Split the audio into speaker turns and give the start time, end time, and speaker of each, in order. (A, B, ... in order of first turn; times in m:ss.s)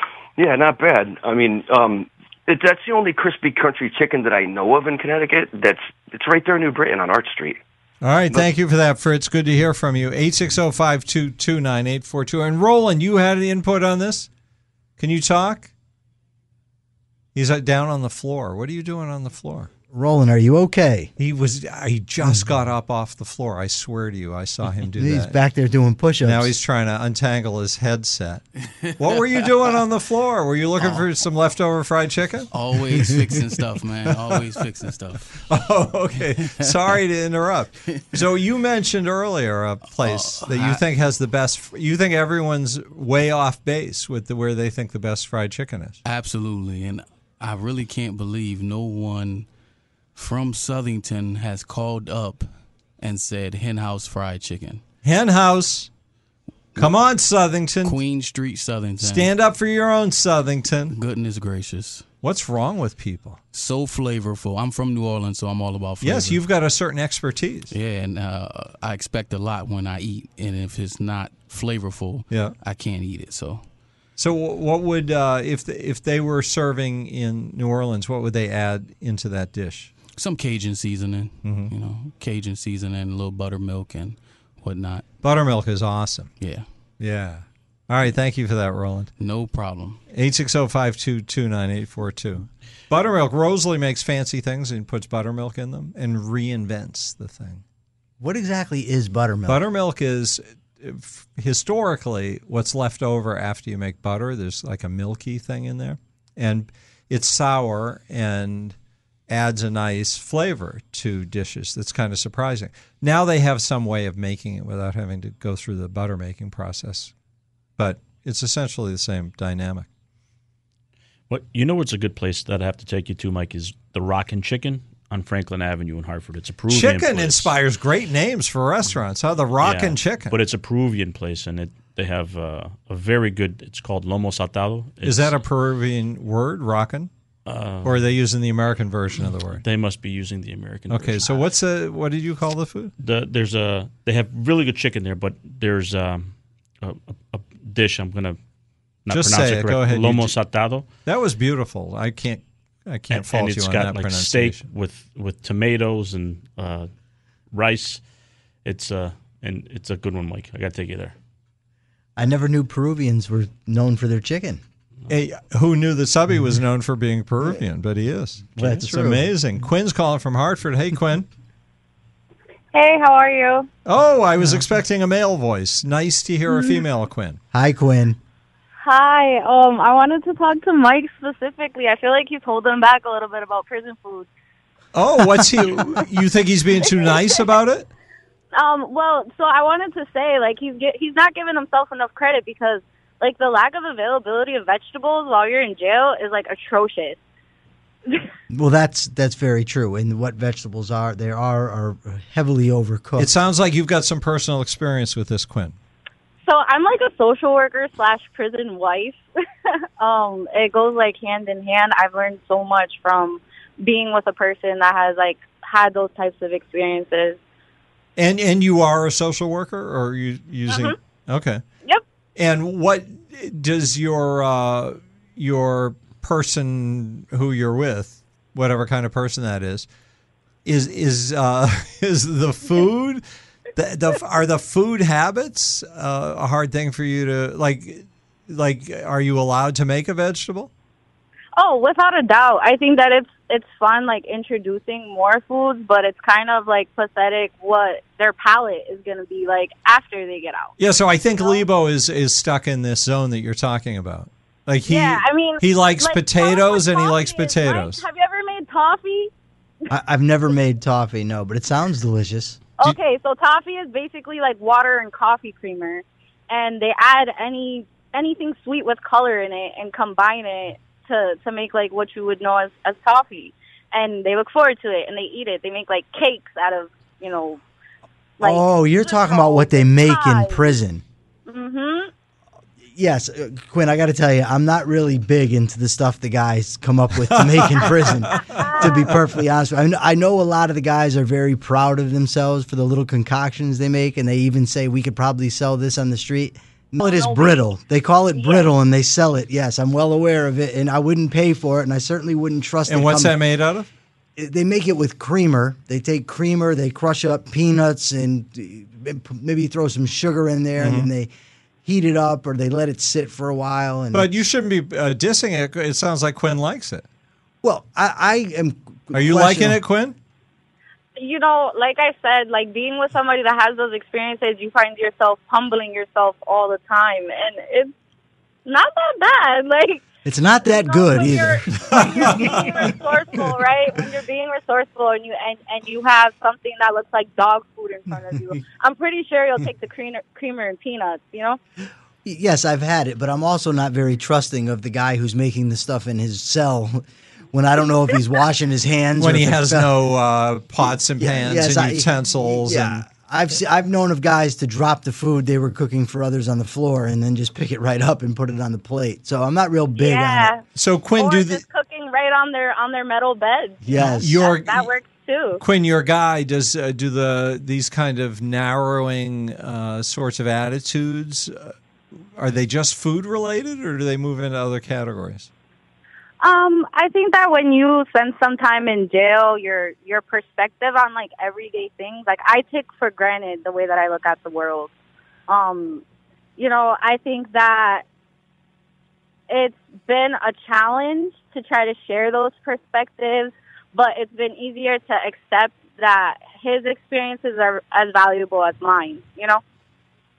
0:00.4-0:07.6 A
0:08.0-0:14.3 B
0:15.0-0:15.7 B
0:17.3-0:19.7 B
0:19.9-0:21.1 C
0:21.2-0:25.4 B
0:25.0-0:26.5 C
0:26.2-0:28.4 B
0:29.0-0:32.5 B
0:32.5-0:35.2 D
0:34.0-0:34.7 B
0:35.4-0:46.0 B
0:40.1-0:40.8 D
0:46.0-0:49.4 D
0:50.2-0:52.5 D
0:53.0-0:54.8 D
0:55.0-0:55.9 B
0:56.8-0:58.0 B
0:57.8-0:59.2 D
0:59.0-1:01.0 B
1:00.9-1:02.0 D
1:02.2-1:03.4 B
1:03.5-1:06.4 D
1:06.0-1:07.7 B
1:07.7-1:13.6 D
1:12.3-1:12.6 B
1:14.2-1:19.9 B
1:20.2-1:25.0 D
1:21.4-1:21.7 B
1:25.2-1:26.3 B
1:26.4-1:26.6 D
1:27.0-1:29.1 B
1:29.2-1:30.0 D
1:30.1-1:37.6 B
1:38.2-1:39.6 C
1:39.5-1:48.8 B
1:49.3-1:57.1 B
1:57.8-1:59.9 B
2:01.3-2:07.5 E
2:06.7-2:10.3 B
2:09.6-2:15.4 E
2:15.0-2:17.1 B
2:17.4-2:18.0 E
2:17.8-2:19.6 B
2:19.6-2:21.4 E
2:20.9-2:22.9 B
2:23.0-2:28.4 E
2:29.0-2:30.8 E
2:29.1-2:30.3 B
2:31.0-2:34.6 B
2:33.1-2:36.9 E
2:37.5-2:38.0 E
2:38.6-2:41.1 E
2:42.2-2:44.6 C
2:45.1-2:51.3 B
2:48.6-2:49.2 C
2:52.7-2:53.7 F
2:53.8-2:57.4 B
2:57.5-2:58.2 C
2:58.8-3:04.3 F
3:04.9-3:07.9 B
3:08.5-3:17.2 F
3:18.5-3:23.3 C
3:23.2-3:25.8 B
3:26.4-3:29.2 F
3:30.0-3:37.4 F
3:38.2-3:41.6 B
3:40.7-3:40.9 F
3:42.4-3:49.9 B
3:50.6-3:53.2 B
3:53.7-4:00.7 B
4:01.6-4:10.7 F
4:10.8-4:18.0 B
4:11.4-4:11.6 F
4:14.8-4:19.3 F
4:19.9-4:22.6 C
4:22.8-4:37.6 F
4:38.4-4:40.7 F
4:38.4-4:41.0 C
4:41.5-4:42.1 F
4:42.9-5:03.4 C
4:47.4-4:47.8 B
4:48.3-4:48.9 B
4:48.4-4:49.1 F
4:57.0-4:57.6 F
4:58.3-4:58.7 F
5:02.9-5:03.9 B
5:04.4-5:11.3 C
5:10.8-5:11.1 B
5:11.8-5:14.3 C
5:14.1-5:17.0 B
5:17.6-5:19.8 C
5:19.1-5:20.2 B
5:21.2-5:27.9 F
5:28.6-5:30.0 F
5:30.2-5:33.0 C
5:30.6-5:41.6 F
5:31.8-5:32.9 B
5:42.2-5:49.9 C
5:49.2-5:53.0 B
5:51.2-6:00.5 C
6:00.0-6:00.6 F
6:00.7-6:01.6 B
6:01.2-6:05.6 F
6:03.8-6:04.4 C
6:04.0-6:04.9 B
6:05.6-6:11.7 B
6:12.3-6:15.5 B
6:16.4-6:24.9 F
6:25.5-6:26.0 F
6:26.6-6:28.0 F
6:29.5-6:39.6 F